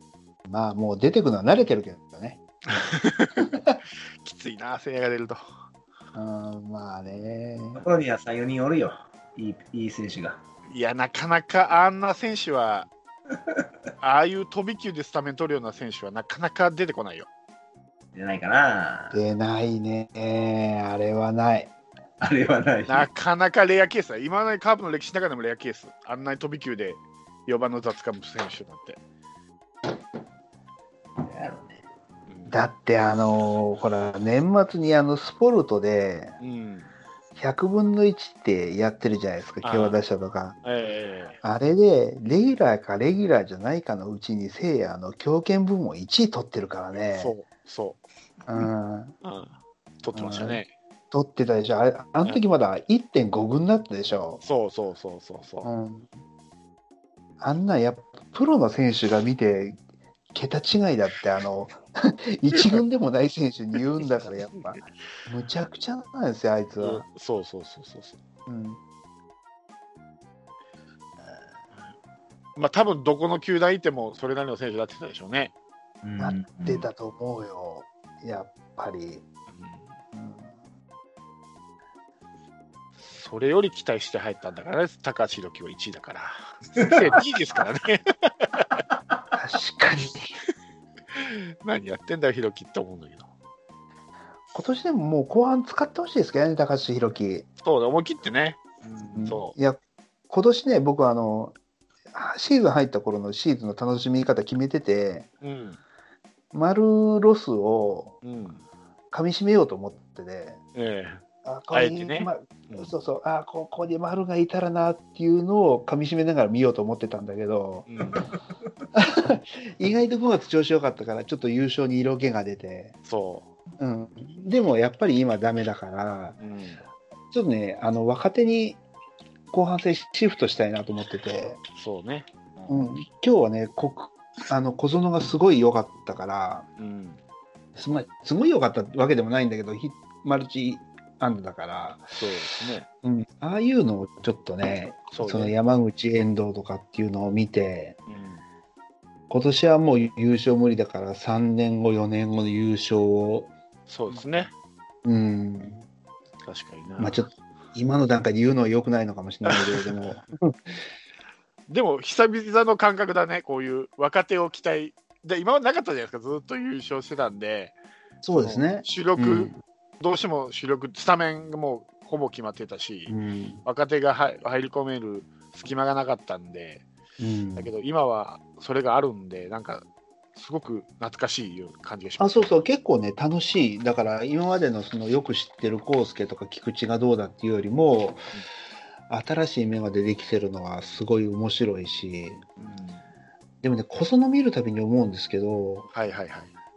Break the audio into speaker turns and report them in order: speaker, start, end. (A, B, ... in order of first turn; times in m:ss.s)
0:00.5-0:02.4 A
0:02.7-0:03.5 B
0:03.4-0:03.8 A
0:04.2-0:05.4 B
0:06.1-0:07.8 A
0:07.8-0:10.4 C
0:10.7-0:12.9 B
0:14.0-0:17.3 B
0:18.1-0:19.2 C
0:19.1-0:21.7 A
0:22.2-0:23.1 C
0:22.9-0:29.0 B
0:31.2-0:31.8 C
0:32.3-0:32.6 B
0:32.5-0:36.4 A
0:36.4-0:36.9 B
0:37.4-0:40.6 A
0:39.6-0:40.0 B
0:40.6-0:41.4 B
0:41.4-0:47.3 A
0:46.9-0:48.0 B
0:48.5-0:49.2 A
0:49.2-0:50.7 B
0:50.1-0:54.4 A
0:54.4-0:55.7 B
0:55.6-0:56.1 A
0:57.4-0:59.8 A
1:00.3-1:07.0 A
1:02.5-1:02.8 B
1:06.8-1:08.2 B
1:08.5-1:08.8 A
1:12.6-1:15.5 B
1:16.0-1:16.9 C
1:16.2-1:19.2 A
1:19.6-1:19.8 B
1:20.1-1:20.5 A
1:23.0-1:28.8 B
1:26.8-1:27.2 C
1:29.3-1:30.3 A
1:31.1-1:33.3 B
1:34.5-1:37.5 A
1:37.6-1:38.6 B
1:38.8-1:39.3 C
1:39.1-1:41.6 A
1:39.2-1:39.5 B
1:42.1-1:45.3 A
1:45.4-1:45.8 B
1:46.5-1:48.2 A
1:48.2-1:48.6 B
1:49.1-1:50.6 A
1:50.8-1:52.9 B
1:51.4-1:57.9 A
1:57.9-1:58.2 B
1:59.0-2:03.0 A
2:03.1-2:03.5 B
2:03.8-2:06.4 A
2:06.4-2:06.8 B
2:07.3-2:08.8 A
2:09.5-2:11.6 A
2:11.8-2:12.9 B
2:12.7-2:16.7 A
2:16.8-2:17.2 B
2:17.8-2:22.1 A
2:22.2-2:22.9 B
2:23.0-2:28.0 A
2:25.1-2:25.6 B
2:28.1-2:28.4 B
2:29.3-2:33.5 A
2:33.9-2:34.5 B
2:35.0-2:35.9 A
2:36.4-2:37.2 B
2:37.0-2:40.8 A
2:39.4-2:40.2 B
2:41.7-2:47.8 B
2:48.2-2:49.6 A
2:48.4-2:56.8 B
2:53.1-2:53.6 A
2:57.2-2:57.7 A
2:57.6-3:02.6 B
3:02.2-3:08.3 A
3:09.1-3:12.5 A
3:12.6-3:13.0 B
3:13.6-3:15.9 A
3:15.9-3:16.5 B